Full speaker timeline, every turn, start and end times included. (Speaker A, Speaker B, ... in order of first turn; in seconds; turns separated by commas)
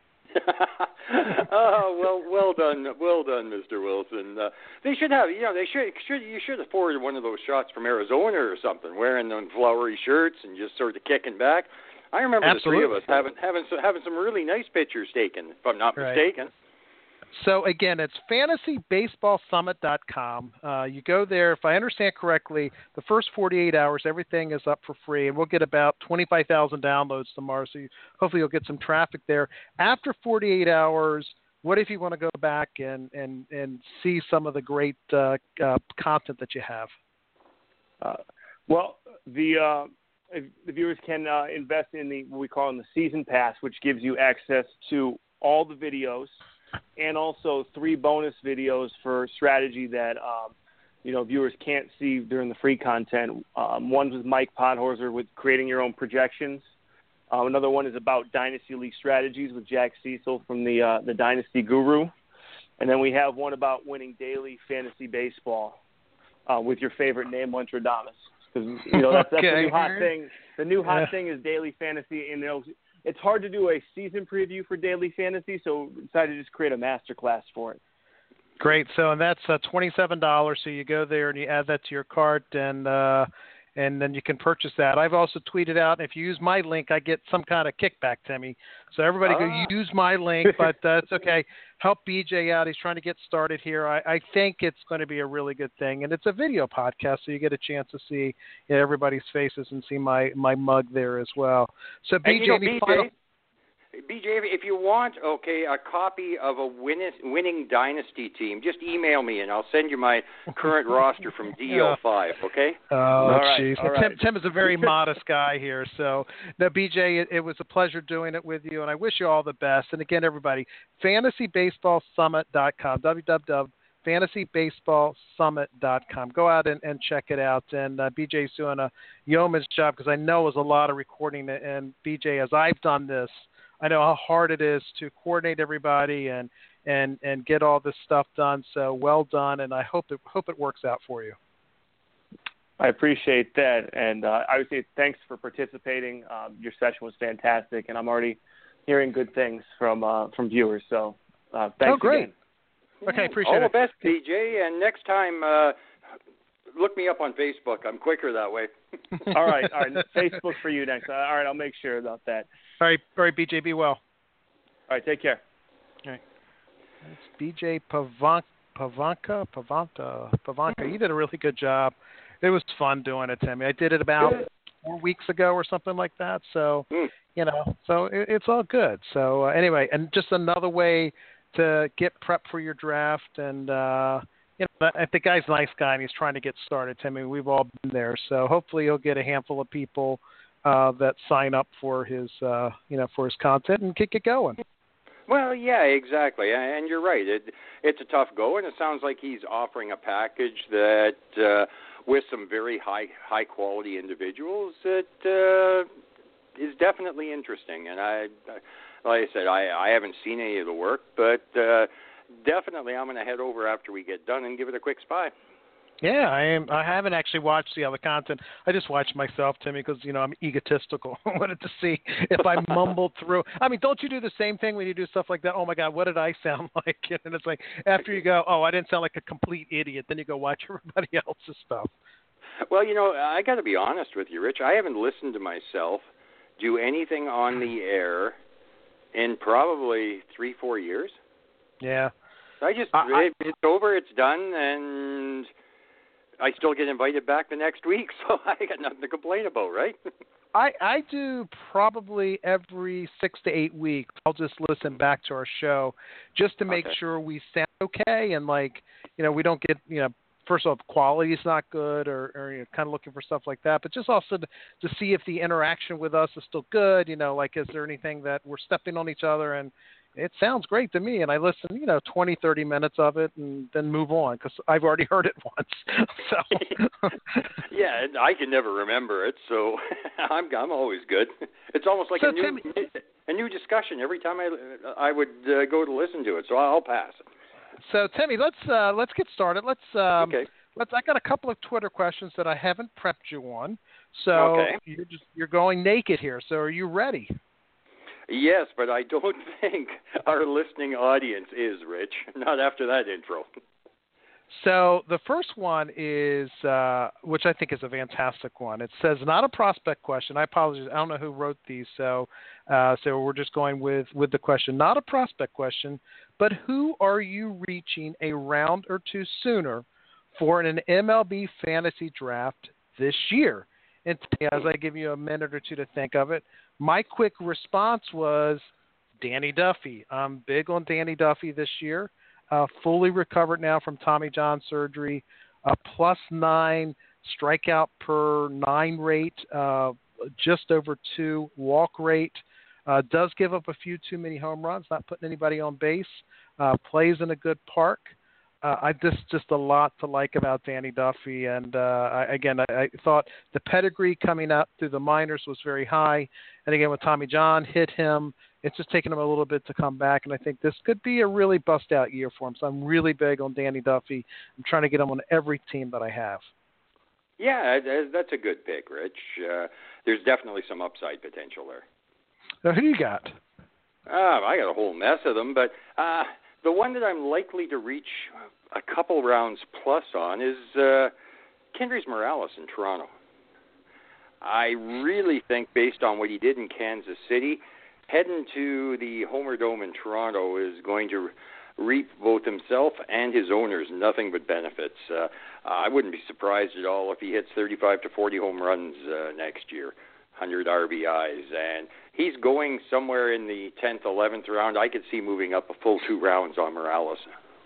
Speaker A: 0.3-16.5, Speaker B: 12.4-13.1, Speaker B: 16.0-16.2, Speaker B: 17.3-36.9, Speaker C: 38.0-46.3, Speaker C: 47.0-56.6, Speaker C: 57.3-62.1, Speaker C: 62.8-65.8, Speaker C: 66.5-77.8, Speaker B: 68.9-70.1, Speaker B: 78.6-103.1, Speaker A: 102.2-103.1, Speaker A: 103.9-113.7, Speaker B: 111.7-112.0, Speaker B: 112.9-141.3, Speaker C: 113.2-114.2, Speaker C: 142.8-152.3, Speaker B: 151.8-152.3, Speaker A: 153.0-155.8, Speaker B: 153.0-153.7, Speaker A: 156.7-159.3, Speaker C: 159.3-162.5, Speaker B: 162.8-164.0, Speaker C: 164.9-165.4, Speaker B: 167.0-194.6, Speaker A: 195.3-205.9, Speaker A: 206.6-211.9, Speaker A: 212.4-215.3, Speaker B: 216.0-231.9, Speaker A: 232.7-236.0, Speaker A: 236.6-238.3, Speaker A: 239.1-241.1, Speaker B: 241.8-242.1, Speaker A: 242.6-245.5, Speaker B: 242.9-243.3, Speaker A: 246.4-249.9, Speaker B: 250.5-277.1, Speaker A: 277.7-287.2, Speaker B: 282.2-282.6, Speaker B: 287.8-297.3, Speaker A: 290.2-290.4, Speaker A: 294.3-294.8, Speaker A: 298.3-303.5, Speaker B: 304.5-328.6, Speaker B: 329.2-366.4, Speaker A: 367.4-371.8, Speaker B: 372.6-373.4, Speaker A: 374.1-381.1, Speaker A: 381.7-383.1, Speaker A: 384.4-407.3